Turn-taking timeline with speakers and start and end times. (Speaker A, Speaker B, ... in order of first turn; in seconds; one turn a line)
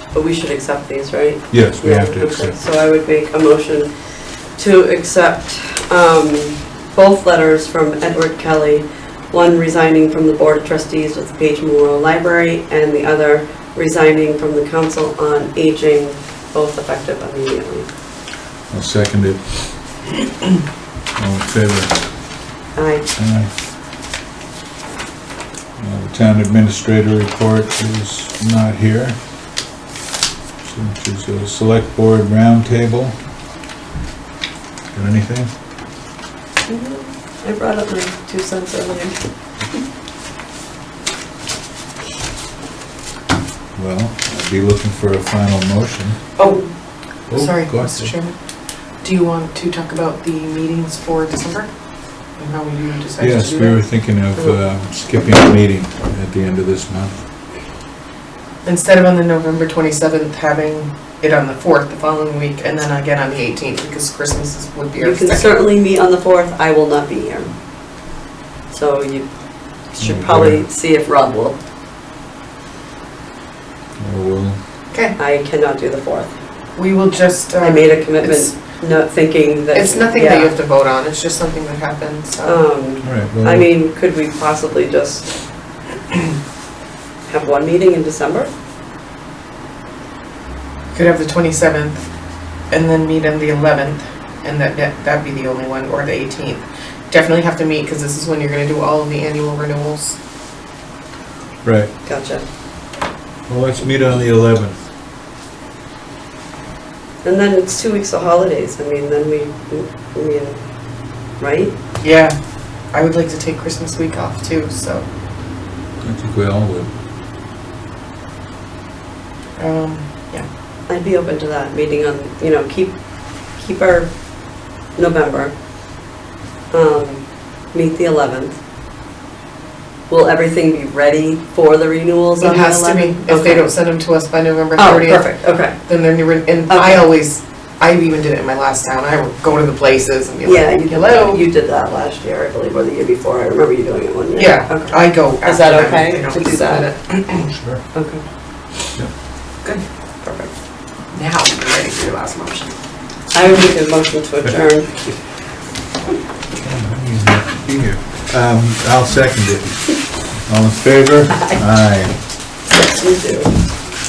Speaker A: 0.1-17.9
Speaker B: 1.5-2.6
Speaker B: 18.7-19.7
Speaker B: 21.1-22.0
Speaker A: 22.7-23.1
Speaker B: 23.1-23.5
Speaker B: 25.8-29.2
Speaker B: 30.6-33.2
Speaker B: 34.9-35.5
Speaker A: 36.7-39.2
Speaker B: 43.7-46.2
Speaker C: 46.4-46.7
Speaker A: 46.4-46.7
Speaker B: 47.3-48.1
Speaker C: 47.3-48.4
Speaker C: 49.0-51.7
Speaker C: 52.4-53.8
Speaker B: 53.2-57.2
Speaker C: 58.6-65.6
Speaker A: 65.0-67.5
Speaker A: 68.7-69.3
Speaker A: 69.9-71.6
Speaker B: 70.0-70.6
Speaker B: 74.0-74.6
Speaker A: 75.2-76.3
Speaker C: 76.8-78.5
Speaker A: 77.6-80.5
Speaker C: 79.7-82.6
Speaker A: 82.4-85.3
Speaker B: 83.0-83.7
Speaker A: 87.3-88.5
Speaker C: 90.9-92.0
Speaker C: 92.7-100.2
Speaker B: 101.6-101.9
Speaker A: 102.0-102.4
Speaker B: 103.5-104.8
Speaker A: 107.2-110.6
Speaker A: 111.4-111.7
Speaker C: 112.0-112.3
Speaker C: 112.9-115.0
Speaker B: 116.0-116.9
Speaker C: 119.6-120.5
Speaker A: 120.9-123.0
Speaker A: 123.5-124.1
Speaker A: 125.0-125.5
Speaker A: 126.7-128.6
Speaker A: 130.1-133.7
Speaker C: 132.4-141.4
Speaker A: 134.8-135.8
Speaker A: 136.7-137.1
Speaker A: 140.4-146.9
Speaker C: 144.3-147.5
Speaker B: 147.5-147.8
Speaker A: 147.9-148.2
Speaker A: 150.2-150.5
Speaker C: 151.1-152.7
Speaker A: 153.3-154.9
Speaker B: 154.4-155.1
Speaker B: 156.6-162.2
Speaker A: 162.7-163.6